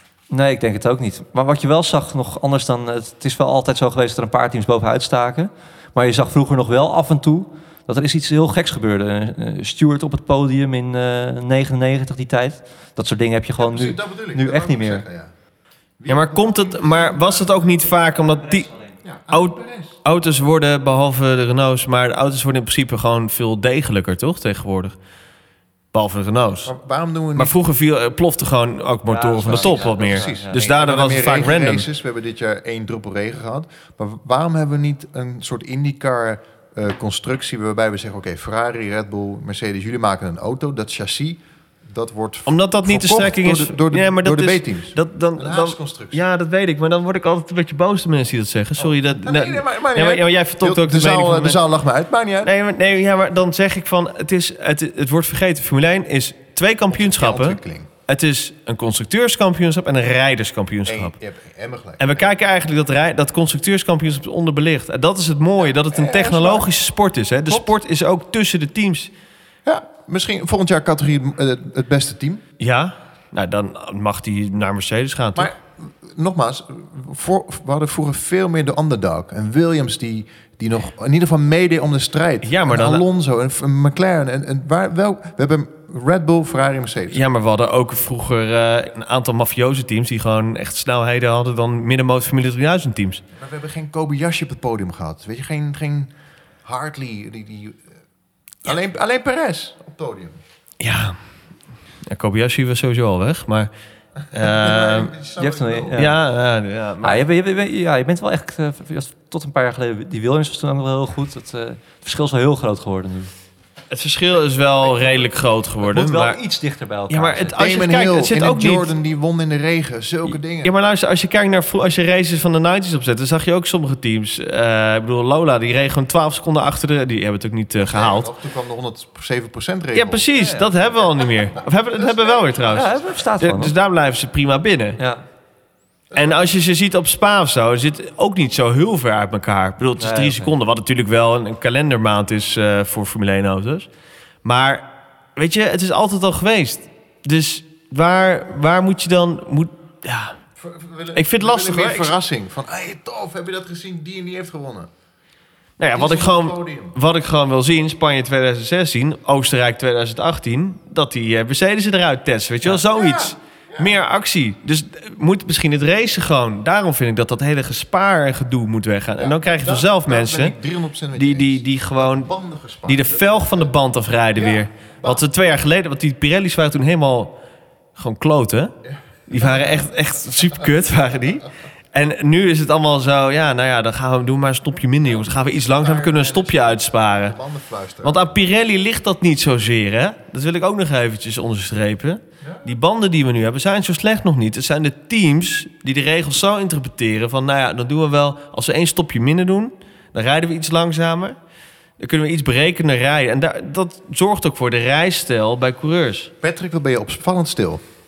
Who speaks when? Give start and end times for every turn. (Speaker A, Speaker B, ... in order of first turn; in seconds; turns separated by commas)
Speaker A: 0.3-15.0, Speaker B: 13.6-15.3, Speaker B: 16.0-17.8, Speaker C: 16.1-18.7, Speaker A: 18.1-18.8, Speaker B: 19.0-19.9, Speaker C: 19.3-24.9, Speaker C: 25.9-26.7, Speaker B: 26.6-27.6, Speaker C: 27.4-31.9, Speaker B: 29.1-46.2, Speaker A: 29.1-30.5, Speaker C: 42.5-51.6, Speaker B: 48.8-52.5, Speaker C: 52.4-61.1, Speaker B: 56.9-57.9, Speaker B: 60.9-62.3, Speaker C: 62.0-69.1, Speaker B: 65.9-66.7, Speaker B: 69.7-72.4, Speaker C: 72.6-75.5, Speaker B: 75.3-87.2, Speaker C: 82.4-83.0, Speaker C: 87.1-93.2, Speaker B: 93.3-96.1, Speaker B: 96.6-97.8, Speaker B: 98.6-100.4, Speaker C: 100.8-101.2, Speaker C: 102.1-103.7, Speaker C: 104.3-105.1, Speaker B: 104.3-106.1, Speaker A: 105.4-106.2, Speaker C: 106.0-107.2, Speaker A: 107.0-113.3, Speaker C: 113.9-116.4, Speaker B: 114.8-115.3, Speaker A: 115.8-117.5, Speaker C: 117.1-118.9, Speaker B: 117.5-120.7, Speaker C: 120.3-128.3, Speaker B: 127.8-133.0, Speaker C: 129.9-135.0, Speaker A: 132.7-133.7, Speaker A: 135.0-135.2, Speaker B: 136.1-136.5, Speaker C: 136.2-143.9, Speaker A: 140.0-140.5, Speaker C: 144.4-150.4, Speaker B: 150.6-154.9, Speaker C: 151.2-152.1, Speaker C: 155.8-170.6, Speaker B: 155.9-156.9, Speaker B: 162.9-164.0, Speaker B: 169.2-173.7, Speaker C: 171.1-172.3, Speaker C: 172.8-177.3, Speaker B: 174.3-175.2, Speaker C: 178.0-178.8, Speaker B: 178.8-179.8, Speaker C: 179.3-187.4, Speaker B: 185.2-188.2, Speaker C: 188.0-201.4, Speaker C: 202.0-206.3, Speaker B: 206.4-207.8